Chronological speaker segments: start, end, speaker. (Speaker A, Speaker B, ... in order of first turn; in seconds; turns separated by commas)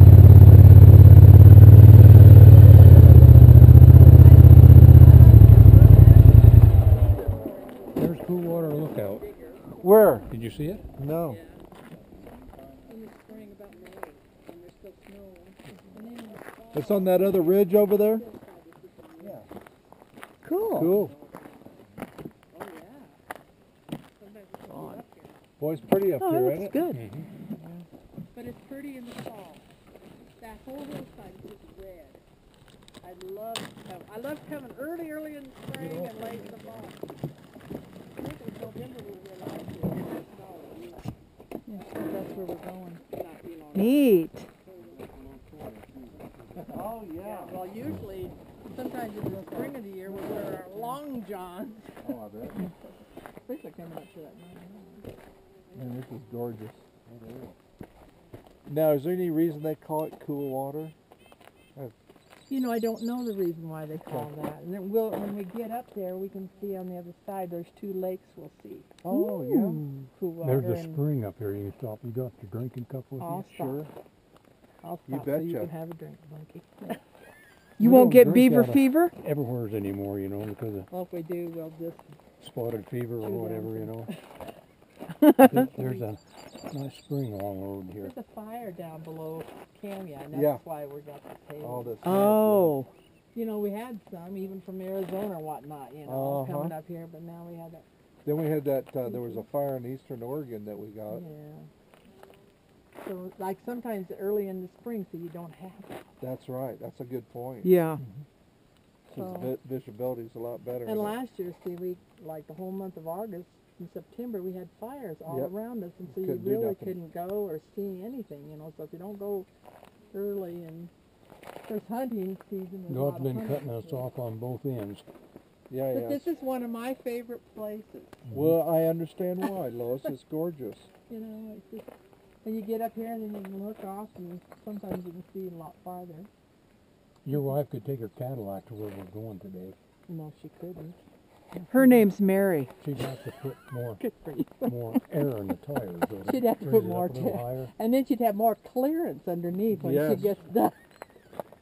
Speaker A: 4.1-10.1, Speaker B: 8.0-9.2, Speaker C: 9.8-10.3, Speaker B: 10.3-10.8, Speaker C: 11.0-11.4, Speaker A: 11.2-11.6, Speaker C: 12.2-12.8, Speaker A: 12.8-19.5, Speaker C: 16.7-18.2, Speaker C: 19.2-19.5, Speaker D: 20.4-21.0, Speaker C: 20.7-21.2, Speaker A: 22.5-23.2, Speaker A: 24.2-25.4, Speaker D: 24.7-25.0, Speaker C: 25.6-26.8, Speaker D: 26.2-27.0, Speaker B: 26.9-27.3, Speaker A: 28.3-29.7, Speaker A: 30.4-32.2, Speaker A: 33.0-37.0, Speaker C: 35.8-36.9, Speaker A: 38.1-41.1, Speaker A: 41.7-44.9, Speaker D: 43.8-44.5, Speaker C: 44.7-47.6, Speaker A: 46.6-52.7, Speaker C: 49.3-51.0, Speaker C: 52.0-52.6, Speaker A: 53.5-55.1, Speaker C: 55.7-57.6, Speaker C: 58.7-61.0, Speaker A: 62.5-68.9, Speaker C: 69.0-69.8, Speaker D: 69.1-70.1, Speaker A: 70.1-71.0, Speaker B: 70.4-73.5, Speaker A: 73.2-73.8, Speaker C: 73.4-73.9, Speaker A: 74.8-77.0, Speaker C: 75.1-75.7, Speaker D: 77.8-79.1, Speaker B: 77.8-80.9, Speaker A: 80.9-82.1, Speaker B: 82.4-84.1, Speaker A: 83.2-84.1, Speaker D: 85.2-85.6, Speaker B: 85.4-88.1, Speaker A: 88.0-92.0, Speaker C: 90.3-90.6, Speaker C: 91.6-92.8, Speaker D: 92.0-92.9, Speaker A: 93.3-97.9, Speaker C: 96.0-96.7, Speaker C: 98.2-101.2, Speaker A: 99.1-99.4, Speaker A: 101.1-101.7, Speaker A: 103.0-106.0, Speaker C: 106.2-107.7, Speaker D: 107.6-108.0, Speaker C: 109.1-111.2, Speaker A: 109.1-109.5, Speaker A: 110.8-119.5, Speaker C: 115.3-115.5, Speaker C: 116.1-117.0, Speaker A: 120.1-120.9, Speaker A: 121.7-124.0, Speaker B: 122.9-125.0, Speaker C: 125.7-126.3, Speaker A: 125.9-128.2, Speaker B: 128.3-128.6, Speaker C: 128.3-130.9, Speaker A: 131.1-131.9, Speaker A: 132.4-136.3, Speaker B: 137.2-139.8, Speaker A: 140.1-141.0, Speaker A: 141.6-142.1, Speaker D: 141.7-142.7, Speaker B: 142.8-144.0, Speaker A: 144.0-144.8, Speaker B: 144.6-147.7, Speaker A: 146.2-150.8, Speaker C: 149.8-150.3